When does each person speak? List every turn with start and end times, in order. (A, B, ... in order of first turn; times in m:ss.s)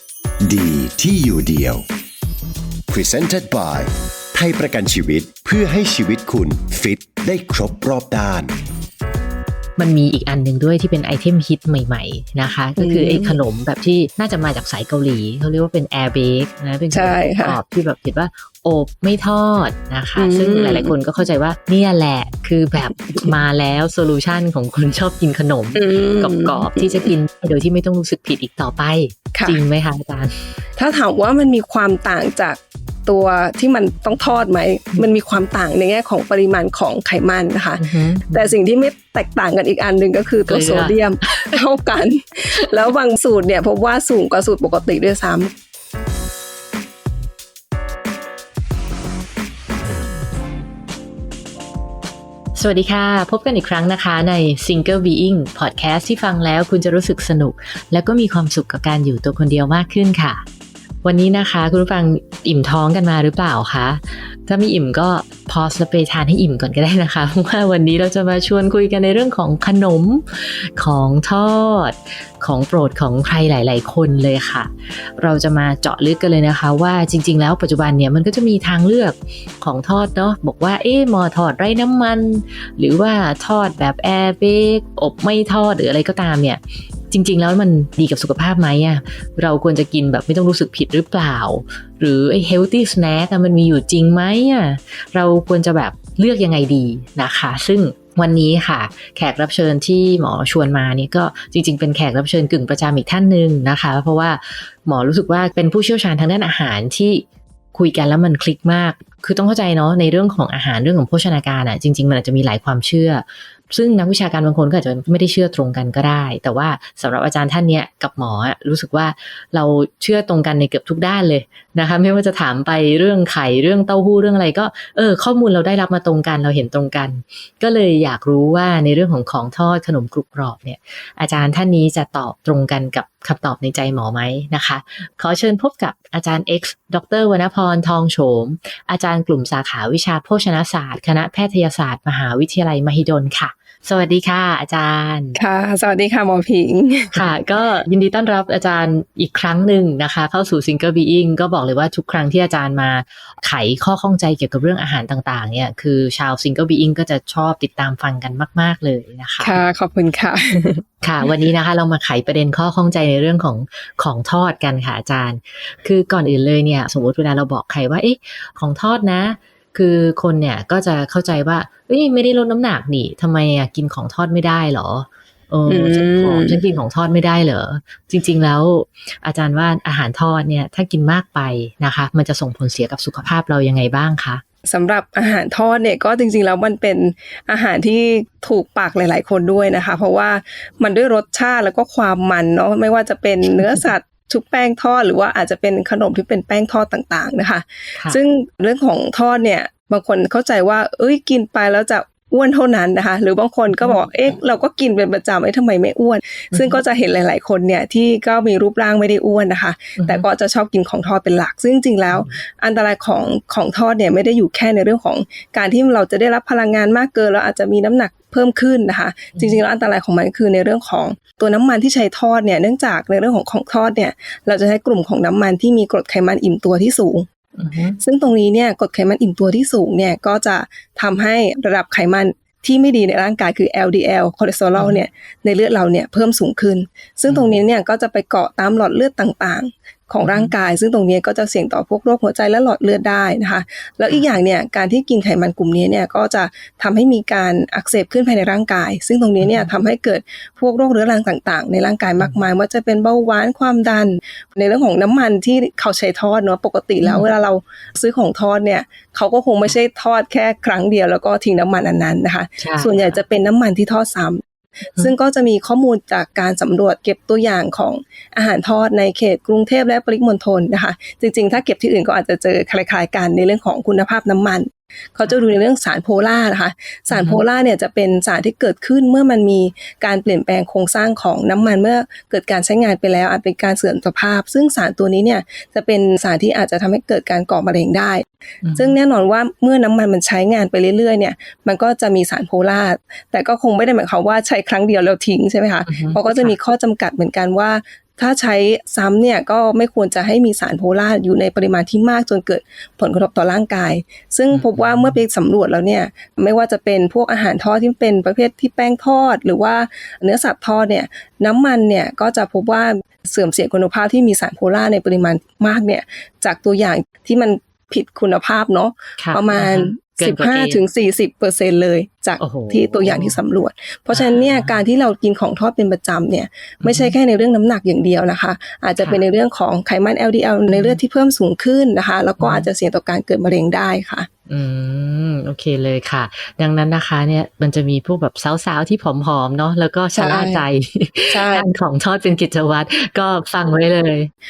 0:00.4-0:01.8 A
0:02.9-0:08.5 A
0:09.8-0:30.5 B
0:12.8-0:13.4 C
0:16.9-0:17.6 C
0:20.2-0:20.9 C
0:25.7-0:27.1 C
0:29.3-0:29.6 C
0:30.8-0:45.5 C
0:37.8-0:38.5 B
0:40.5-0:41.6 B
0:52.6-1:00.4 B
1:01.0-2:25.4 B
2:25.4-2:27.3 C
2:27.1-2:39.6 B
2:39.4-2:40.8 C
2:41.0-3:04.4 B
2:55.7-2:56.6 C
3:04.6-3:47.3 C
3:26.5-3:26.8 B
3:30.0-3:30.2 B
3:32.1-3:32.4 B
3:47.6-3:48.0 B
3:48.0-4:24.4 C
3:54.7-3:55.0 B
4:00.2-4:00.5 B
4:09.4-4:09.7 B
4:22.6-4:23.2 B
4:25.0-5:34.3 C
4:37.1-4:37.4 B
4:48.6-4:48.9 B
4:55.9-4:56.5 B
5:04.5-5:05.2 B
5:19.2-5:20.8 B
5:22.4-5:23.4 B
5:24.1-5:24.8 B
5:26.8-5:27.1 B
5:30.7-5:31.0 B
5:32.4-5:32.7 B
5:34.5-5:44.3 B
5:40.2-5:40.6 C
5:41.3-5:41.7 C